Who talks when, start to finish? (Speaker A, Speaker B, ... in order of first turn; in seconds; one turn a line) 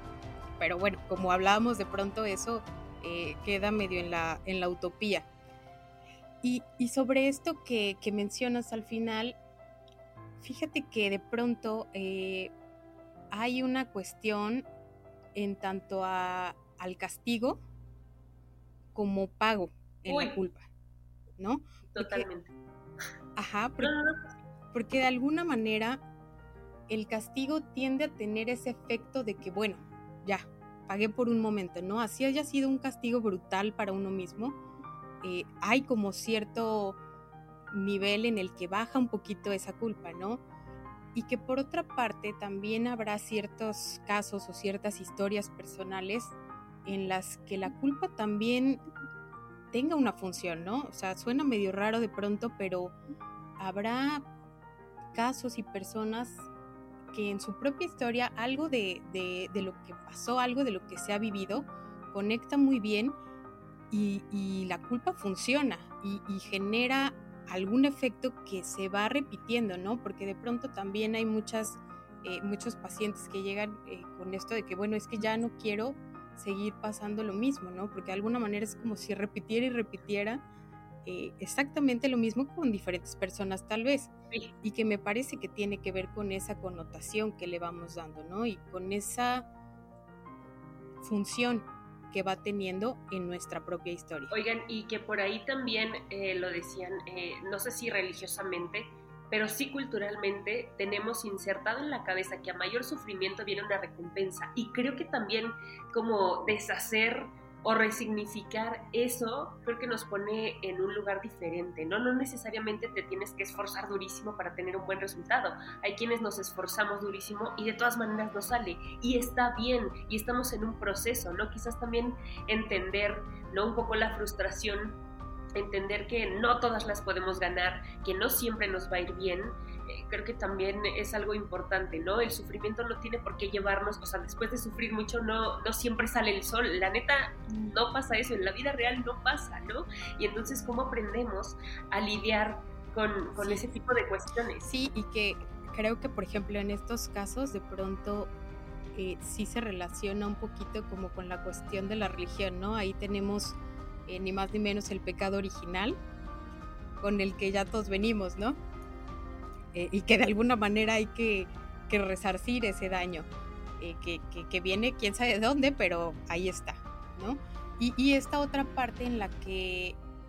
Speaker A: 0.6-5.3
Speaker A: 6.4-9.4
Speaker A: 10.4-12.5
Speaker A: 13.3-14.7
Speaker A: 15.3-17.6
Speaker A: 18.9-20.6
Speaker B: 20.1-20.4
Speaker A: 21.4-22.3
Speaker B: 21.9-22.5
Speaker A: 23.4-23.9
Speaker B: 23.8-24.2
Speaker A: 24.7-26.0
Speaker A: 26.9-34.6
Speaker A: 35.2-37.0
Speaker A: 37.7-40.4
Speaker A: 41.1-46.3
Speaker A: 46.9-48.8
Speaker A: 49.7-52.9
Speaker A: 53.6-54.2
Speaker A: 55.1-56.5
Speaker A: 57.1-63.1
Speaker A: 63.9-80.4
Speaker A: 81.0-84.1
Speaker A: 84.6-89.5
Speaker A: 91.0-94.3
Speaker B: 94.3-125.0
Speaker B: 125.5-144.7
Speaker A: 143.3-143.7
Speaker A: 144.6-148.3
Speaker A: 148.9-156.0
Speaker A: 157.0-158.6
Speaker A: 159.7-163.3
Speaker A: 163.8-170.0